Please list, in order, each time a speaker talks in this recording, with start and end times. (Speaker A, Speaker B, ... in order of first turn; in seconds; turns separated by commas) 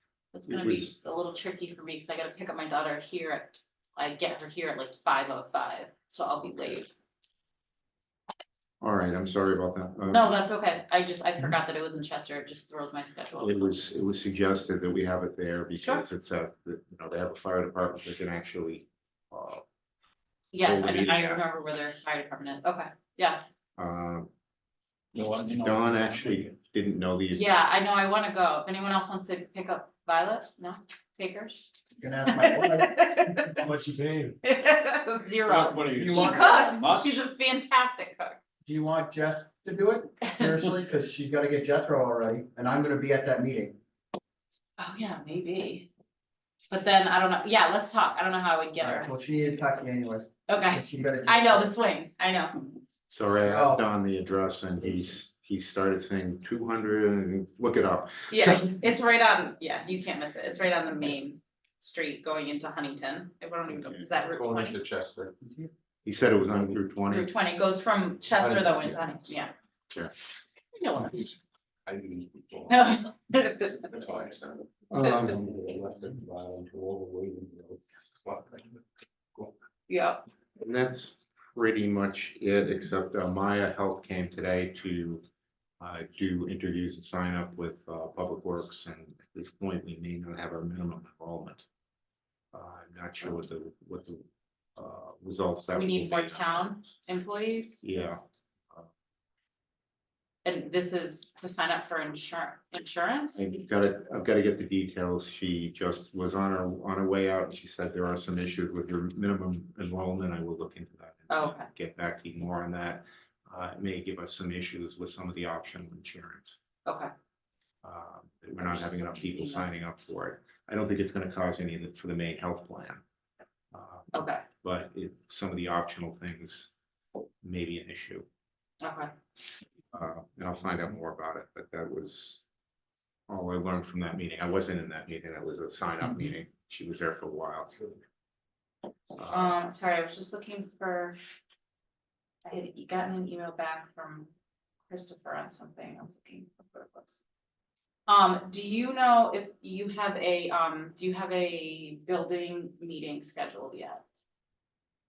Speaker A: 0.3-6.9, Speaker B: 0.5-0.9, Speaker B: 8.8-10.3, Speaker A: 10.1-13.8, Speaker B: 13.4-19.6, Speaker A: 20.5-23.4, Speaker B: 20.6-21.4, Speaker B: 23.8-24.3, Speaker C: 25.1-26.4, Speaker B: 25.5-27.5, Speaker A: 27.3-31.6, Speaker D: 32.0-33.0, Speaker A: 32.3-33.7, Speaker C: 33.6-34.4, Speaker A: 34.4-38.4, Speaker C: 35.4-37.2, Speaker D: 35.9-36.9, Speaker D: 38.6-43.8, Speaker A: 40.2-40.6, Speaker A: 44.8-45.9, Speaker A: 46.7-49.1, Speaker D: 48.8-51.7, Speaker A: 50.5-52.6, Speaker B: 53.1-58.7, Speaker D: 53.4-53.8, Speaker A: 58.3-64.8, Speaker E: 64.3-65.4, Speaker B: 66.0-67.3, Speaker A: 67.1-69.5, Speaker A: 70.7-71.3, Speaker E: 71.9-73.0, Speaker A: 72.7-74.0, Speaker E: 73.9-74.7, Speaker B: 74.9-75.5, Speaker E: 75.2-78.8, Speaker A: 79.9-80.2, Speaker B: 80.6-85.2, Speaker B: 85.8-91.6, Speaker B: 92.5-96.6, Speaker A: 95.7-97.8, Speaker B: 97.8-98.9, Speaker A: 100.4-103.4, Speaker B: 103.3-116.6, Speaker A: 111.3-111.7, Speaker A: 116.8-117.1, Speaker B: 117.8-123.0, Speaker A: 118.6-119.7, Speaker B: 123.7-124.1, Speaker A: 124.1-124.4, Speaker B: 124.6-126.7, Speaker B: 127.4-128.2, Speaker A: 128.8-129.1, Speaker B: 129.9-132.4, Speaker B: 133.3-137.8, Speaker B: 139.2-139.5, Speaker A: 139.2-141.2, Speaker A: 142.4-144.3, Speaker A: 144.9-147.2, Speaker A: 148.1-154.1